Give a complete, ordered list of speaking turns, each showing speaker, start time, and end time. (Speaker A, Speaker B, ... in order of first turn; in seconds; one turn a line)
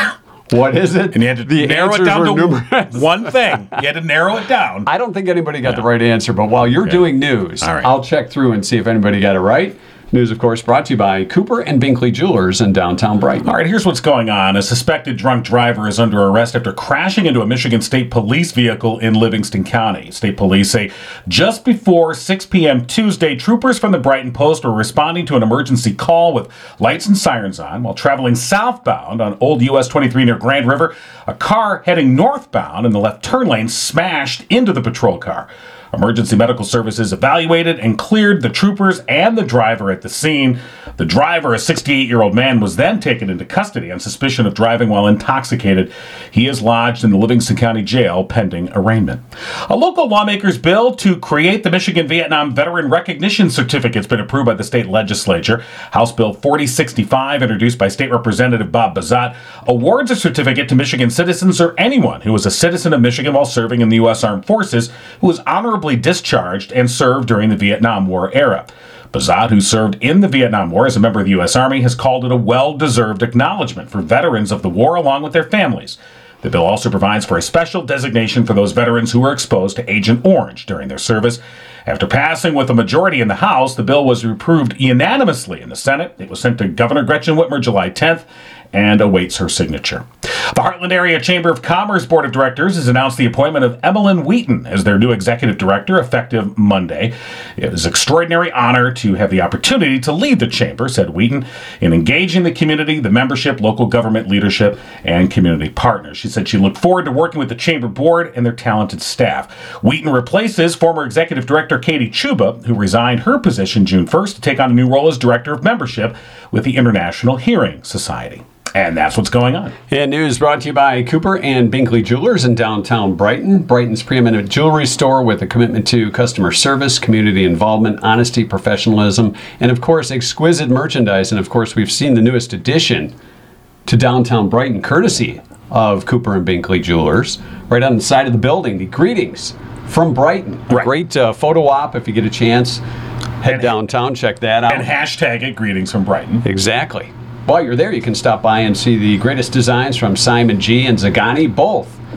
Speaker A: 0.5-3.7
Speaker B: 1.1-4.9
Speaker A: 4.9-13.6
Speaker B: 7.6-7.9
Speaker B: 13.4-119.8
Speaker A: 119.9-133.1
Speaker A: 133.9-142.8
Speaker A: 143.4-144.9
Speaker B: 143.4-143.8
Speaker B: 144.7-146.4
Speaker A: 146.4-152.0